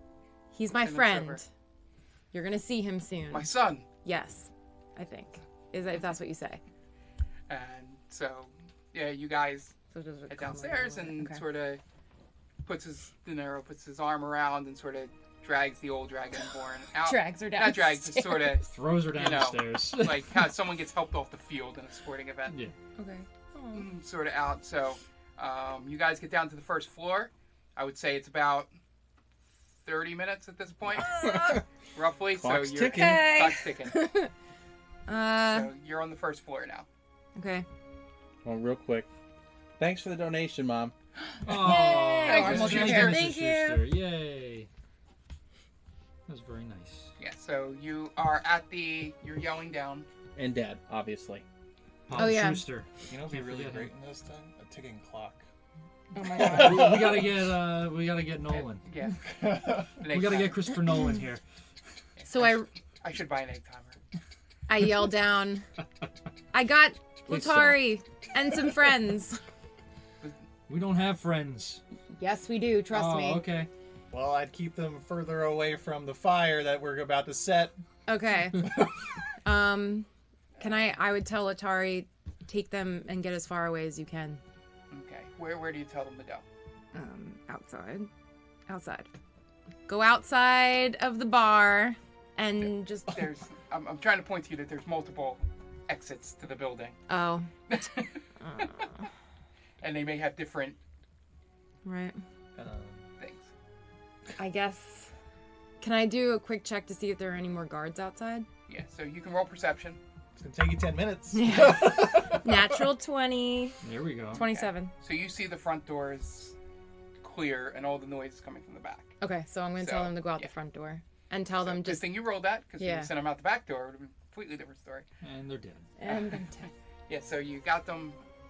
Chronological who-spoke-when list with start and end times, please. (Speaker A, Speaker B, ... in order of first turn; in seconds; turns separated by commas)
Speaker A: 0.5-1.5, Speaker B: 0.7-1.4, Speaker A: 2.3-3.5, Speaker B: 3.3-3.9, Speaker A: 4.0-6.6, Speaker B: 7.5-9.7, Speaker A: 9.9-11.4, Speaker B: 10.3-11.8, Speaker B: 12.6-22.5, Speaker A: 17.1-18.6, Speaker C: 18.7-20.5, Speaker C: 22.5-22.7, Speaker A: 22.9-23.9, Speaker B: 23.7-28.7, Speaker B: 29.8-34.0, Speaker D: 30.9-31.6, Speaker A: 31.0-31.6, Speaker D: 32.3-33.3, Speaker A: 32.9-34.3, Speaker A: 35.1-35.7, Speaker B: 35.4-36.9, Speaker A: 37.3-37.6, Speaker D: 38.4-39.1, Speaker D: 39.8-40.9, Speaker A: 41.4-43.8, Speaker C: 41.4-44.7, Speaker B: 42.2-43.2, Speaker C: 46.3-47.1, Speaker B: 47.2-50.1, Speaker D: 50.3-51.4, Speaker C: 52.1-53.9, Speaker A: 52.1-52.6, Speaker E: 53.1-55.4, Speaker A: 56.1-57.0, Speaker C: 56.4-58.9, Speaker D: 56.4-57.3, Speaker B: 58.5-59.2, Speaker E: 59.2-60.0, Speaker B: 60.0-60.7, Speaker C: 60.1-61.4, Speaker B: 62.2-64.0, Speaker A: 62.3-62.7, Speaker A: 64.7-65.7, Speaker A: 66.5-69.4, Speaker C: 67.3-67.8, Speaker C: 70.7-71.8, Speaker A: 72.2-73.4, Speaker C: 72.9-73.7, Speaker E: 74.1-77.7, Speaker A: 78.1-78.7, Speaker E: 78.7-78.9, Speaker A: 79.4-84.4, Speaker B: 80.5-80.9, Speaker B: 84.9-86.4, Speaker A: 86.9-88.1, Speaker A: 88.7-89.1, Speaker A: 89.9-93.1, Speaker B: 93.1-97.0, Speaker A: 97.1-97.5, Speaker B: 97.7-98.2, Speaker A: 98.4-99.0, Speaker B: 99.8-100.8, Speaker A: 101.8-102.2, Speaker E: 102.5-103.1, Speaker B: 103.2-103.5, Speaker A: 104.4-105.1, Speaker A: 105.8-108.5, Speaker B: 108.7-110.0, Speaker E: 110.3-112.9, Speaker A: 111.3-113.8, Speaker C: 113.8-114.4, Speaker A: 114.3-114.9, Speaker B: 114.3-116.5, Speaker B: 117.2-119.1, Speaker A: 119.2-122.1, Speaker B: 119.8-120.5, Speaker B: 121.6-125.0, Speaker A: 122.8-123.1, Speaker C: 125.2-125.9, Speaker A: 126.0-126.7, Speaker B: 126.1-126.4, Speaker B: 127.1-128.2